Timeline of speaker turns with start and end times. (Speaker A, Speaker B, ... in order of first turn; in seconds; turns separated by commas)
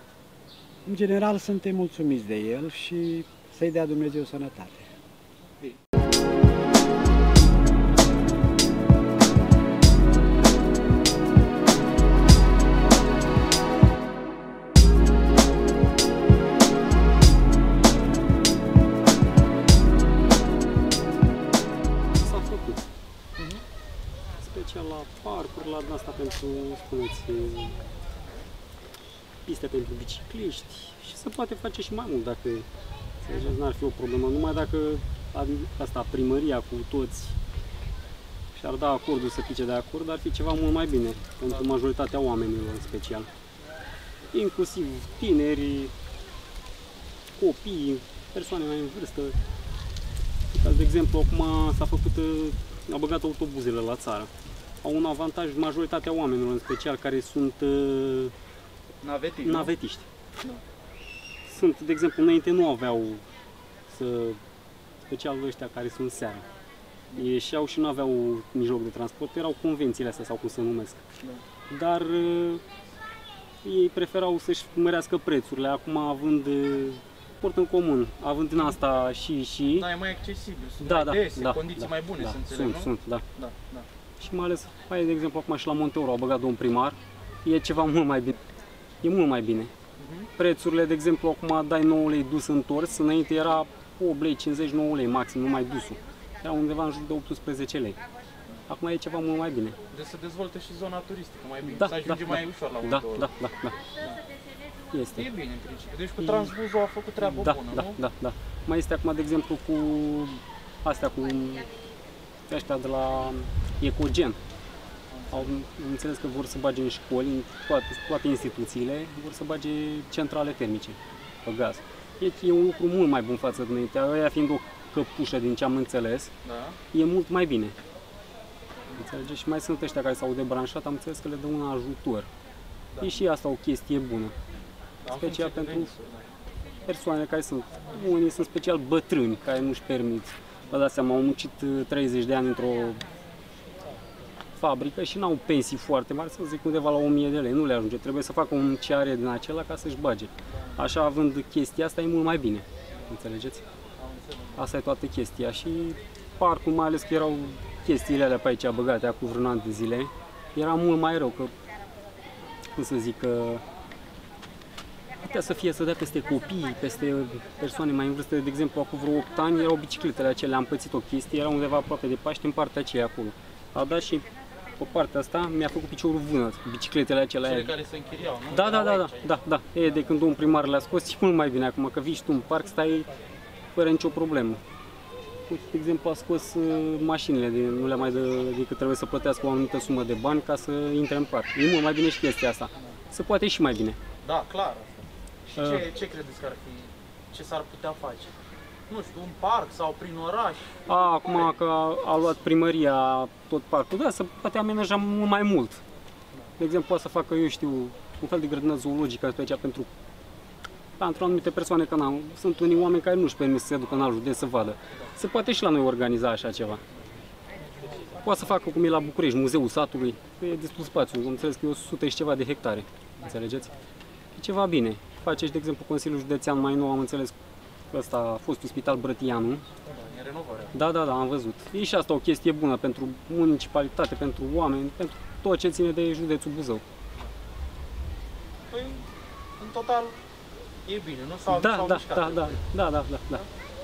Speaker A: 0.8-4.9, Speaker B: 22.1-22.9, Speaker B: 24.4-27.8, Speaker B: 29.4-32.7, Speaker B: 33.2-37.4, Speaker B: 38.5-43.3, Speaker B: 44.3-45.9, Speaker B: 47.4-49.4, Speaker B: 50.5-54.3, Speaker B: 54.8-58.3, Speaker C: 59.0-59.7, Speaker B: 59.4-60.0, Speaker B: 61.5-63.2, Speaker B: 63.9-64.4, Speaker B: 65.1-66.5, Speaker B: 67.1-71.0, Speaker B: 71.7-72.6, Speaker B: 73.6-80.0, Speaker C: 79.8-83.8, Speaker B: 80.8-83.2, Speaker B: 84.2-88.3, Speaker B: 89.0-89.7, Speaker C: 90.0-90.2, Speaker B: 90.3-98.0, Speaker B: 98.7-99.8, Speaker C: 99.9-103.2, Speaker B: 101.7-103.8, Speaker B: 104.9-105.3, Speaker C: 105.1-108.0, Speaker B: 106.2-106.5, Speaker B: 107.2-111.7, Speaker B: 112.5-114.4, Speaker C: 115.1-115.5, Speaker B: 115.3-126.3, Speaker C: 126.5-126.8, Speaker B: 126.9-127.8, Speaker B: 128.9-132.3, Speaker C: 132.9-133.2, Speaker B: 133.0-134.3, Speaker C: 135.0-136.2, Speaker B: 135.0-136.0, Speaker B: 136.9-143.0, Speaker B: 144.6-153.6, Speaker C: 154.0-154.6, Speaker B: 154.6-161.5, Speaker B: 162.7-163.6, Speaker B: 165.2-174.3, Speaker B: 174.8-177.8, Speaker C: 177.4-179.2, Speaker B: 178.5-183.1, Speaker B: 183.7-184.6, Speaker B: 185.5-194.0, Speaker C: 194.2-198.3, Speaker B: 195.5-195.9, Speaker C: 198.9-200.7, Speaker B: 200.8-205.8, Speaker B: 206.6-209.9, Speaker B: 211.0-216.8, Speaker B: 218.2-223.7, Speaker B: 224.3-227.3, Speaker B: 227.9-229.6, Speaker C: 229.8-230.7, Speaker B: 230.7-236.8, Speaker C: 238.7-239.0, Speaker C: 239.6-240.2, Speaker C: 240.8-242.6, Speaker B: 241.5-243.5